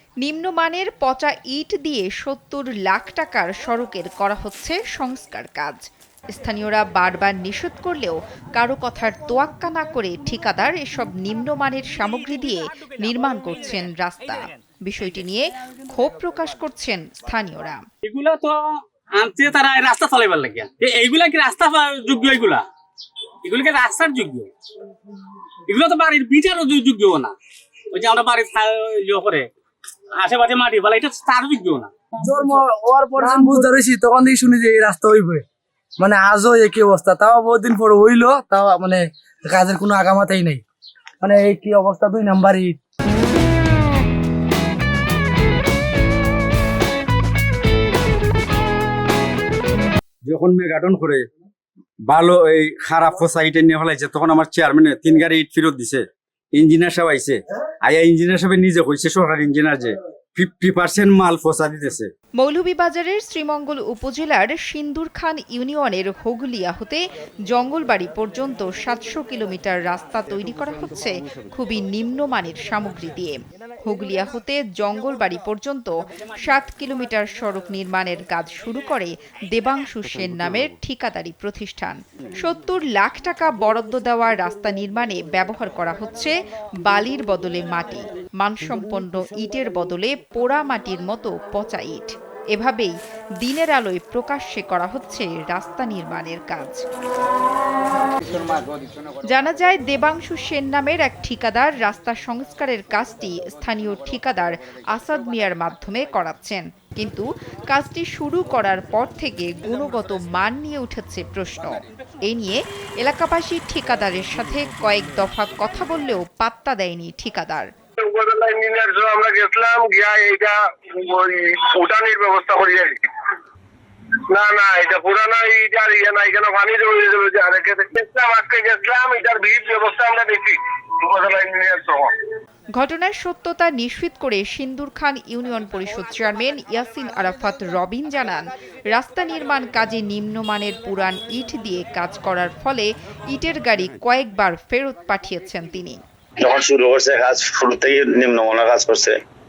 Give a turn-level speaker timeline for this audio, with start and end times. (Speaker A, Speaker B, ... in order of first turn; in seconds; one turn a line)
Speaker A: 0.2-5.8
Speaker A: 6.3-17.8
Speaker B: 18.1-18.5
Speaker B: 19.2-22.6
Speaker B: 23.4-24.5
Speaker B: 25.7-27.3
Speaker B: 27.9-29.4
Speaker B: 30.2-31.9
Speaker C: 32.2-35.4
Speaker C: 36.0-40.6
Speaker C: 41.2-42.8
Speaker D: 50.2-51.2
Speaker D: 52.1-62.1
Speaker A: 62.4-86.3
Speaker A: 86.8-96.8
Speaker A: 99.2-117.7
Speaker E: 118.0-123.0
Speaker E: 124.3-132.1
Speaker A: 132.8-146.0
Speaker F: 146.4-149.1